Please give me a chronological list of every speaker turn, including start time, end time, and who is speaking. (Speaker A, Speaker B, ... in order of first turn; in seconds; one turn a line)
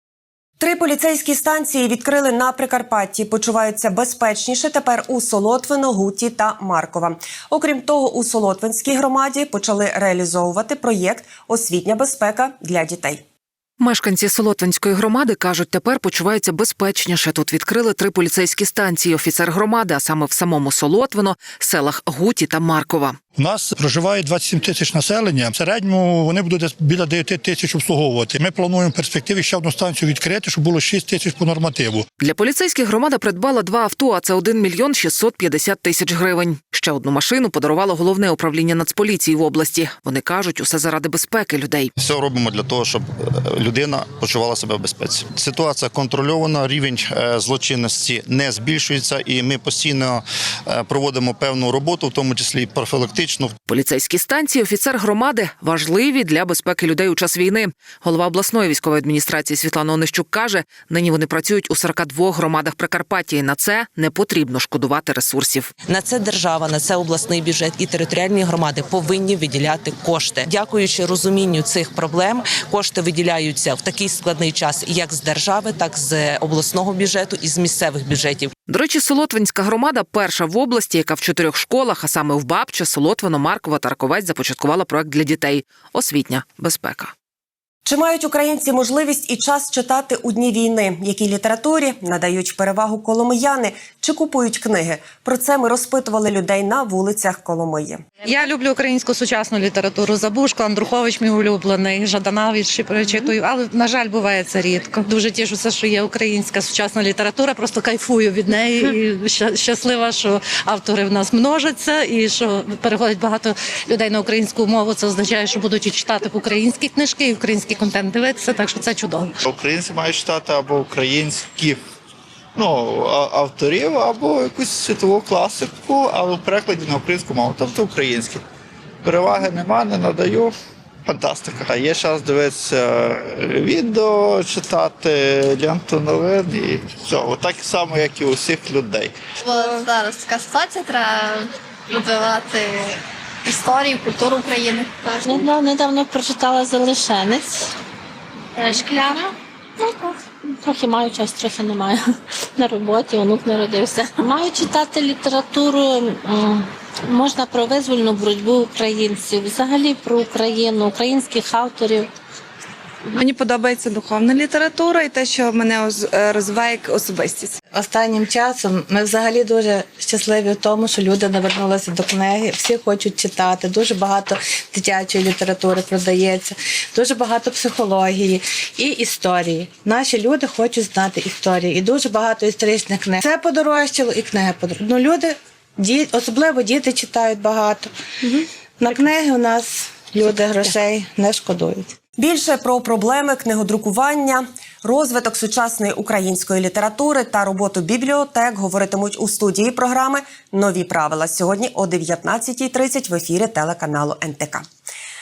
Speaker A: 0.6-13.2
Speaker B: 13.8-23.2
Speaker C: 23.4-32.0
Speaker B: 32.2-41.9
Speaker D: 42.0-53.5
Speaker B: 53.7-65.8
Speaker E: 65.9-78.5
Speaker B: 78.7-87.1
Speaker A: 87.8-98.0
Speaker F: 98.2-119.3
Speaker G: 119.4-121.8
Speaker G: 122.5-128.4
Speaker G: 129.0-130.5
Speaker G: 131.1-139.1
Speaker H: 139.4-142.9
Speaker H: 143.5-145.4
Speaker E: 145.2-145.6
Speaker I: 145.2-147.5
Speaker E: 148.6-149.2
Speaker I: 148.7-149.2
Speaker I: 149.8-150.1
Speaker I: 150.6-152.0
Speaker I: 152.6-162.1
Speaker J: 163.2-167.5
Speaker H: 164.7-165.7
Speaker H: 166.5-167.1
Speaker K: 167.7-187.9
Speaker K: 188.8-191.9
Speaker A: 192.2-204.6